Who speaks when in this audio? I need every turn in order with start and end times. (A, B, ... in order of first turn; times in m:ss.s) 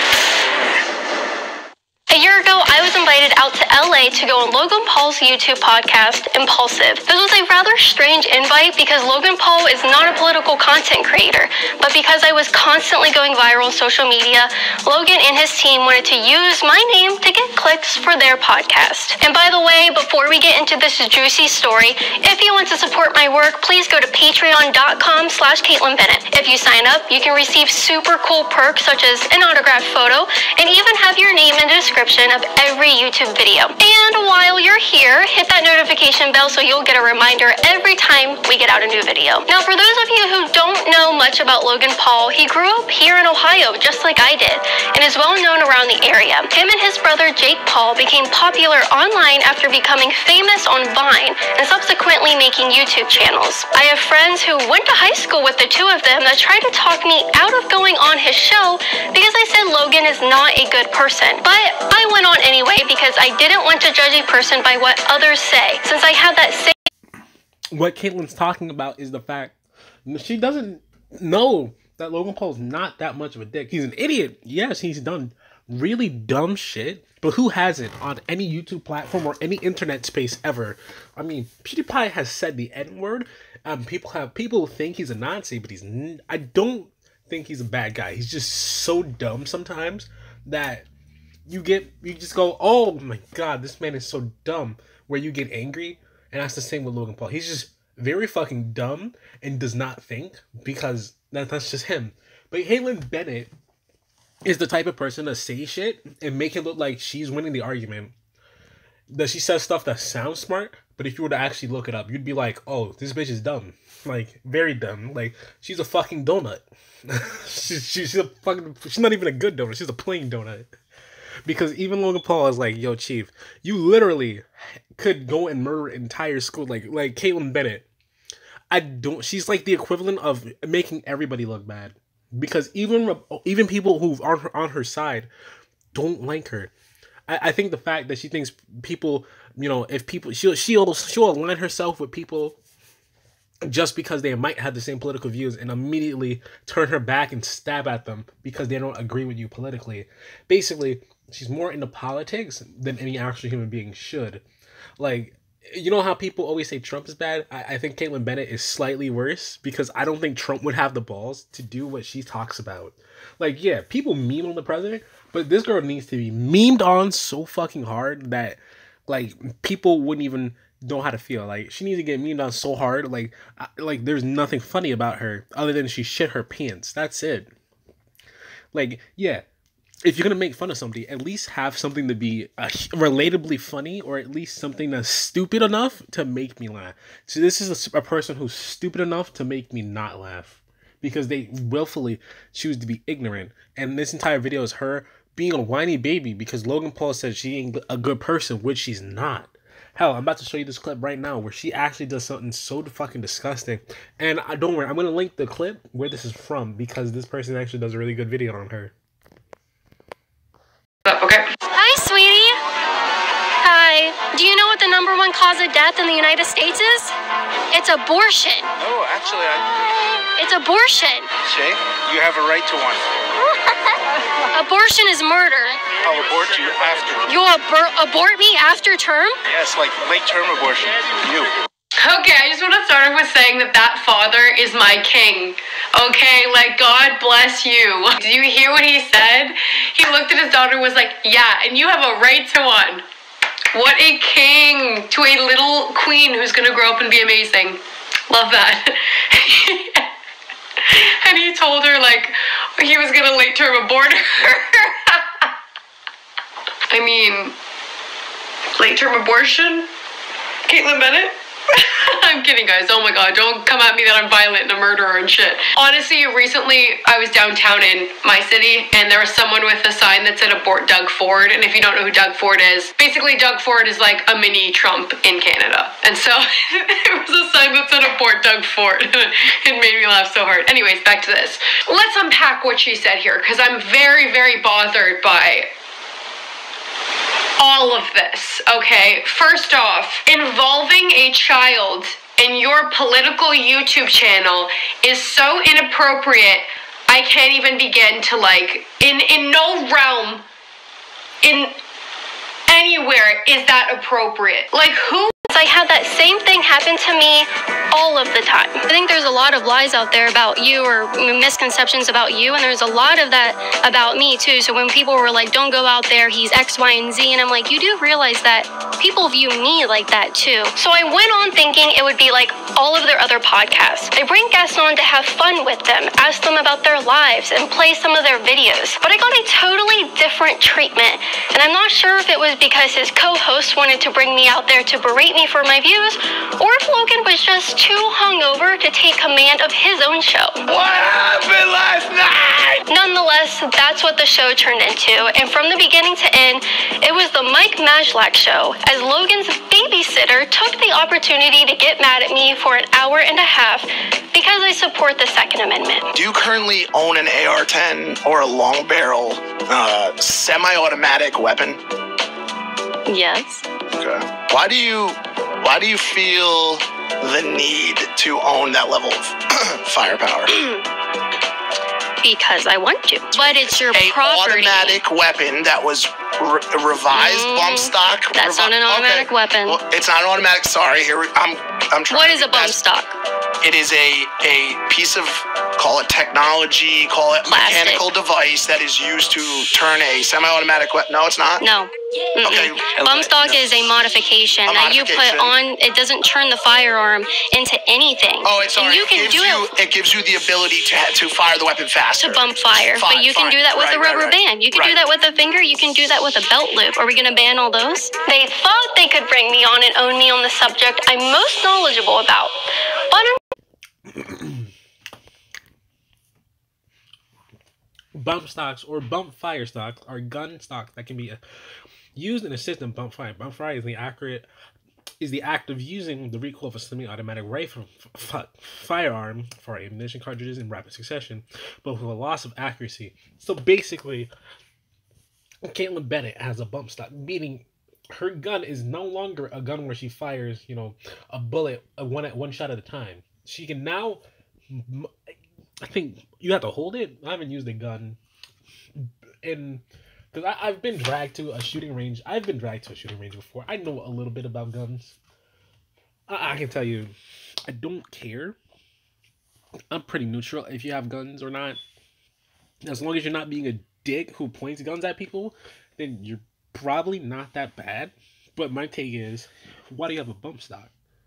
0:02.1-1:06.8 A
1:07.7-1:30.9 B
1:31.5-1:43.5 B
1:44.4-1:48.1 B
1:49.1-2:00.7 B
2:01.5-2:04.5 B
2:05.0-2:07.8 B
2:08.7-2:15.3 B
2:15.9-2:16.7 B
2:17.3-2:22.6 B
2:23.6-2:34.4 B
2:35.0-2:57.5 B
2:58.7-2:59.4 B
3:00.0-3:28.9 B
3:31.0-3:31.5 C
3:31.8-3:32.6 A
3:33.6-3:37.1 A
3:37.7-3:38.7 A
3:38.8-3:39.7 D
3:40.4-3:41.3 A
3:41.4-3:43.0 D
3:44.5-3:45.8 A
3:46.0-3:47.3 D
3:47.3-3:49.4 A
3:49.5-3:51.5 D
3:52.0-4:03.0 C
4:03.7-4:10.1 C
4:10.8-4:15.5 C
4:16.9-4:17.6 C
4:18.8-4:19.9 C
4:20.7-4:45.7 C
4:47.6-5:00.4 C
5:01.4-5:01.8 C
5:02.7-5:05.3 C
5:05.5-5:40.6 A
5:40.7-5:42.8 E
5:42.9-5:56.0 A
5:56.1-6:01.8 E
6:03.1-6:03.6 A
6:04.0-6:10.6 E
6:12.2-6:15.0 A
6:13.3-6:22.8 E
6:17.1-6:19.8 A
6:22.1-6:23.2 A
6:23.6-6:31.6 E
6:27.5-6:28.0 A
6:31.6-6:39.7 A
6:32.4-6:33.8 E
6:34.6-6:35.6 E
6:38.4-6:45.0 E
6:42.2-6:52.6 A
6:53.1-6:53.4 A
6:54.1-6:54.7 B
6:58.2-7:01.4 B
7:02.2-7:04.5 B
7:05.2-7:14.3 B
7:15.6-7:25.1 B
7:25.8-7:28.2 B
7:29.0-7:35.2 B
7:36.3-7:37.1 B
7:37.7-7:38.6 B
7:39.9-7:41.8 B
7:42.8-7:50.9 B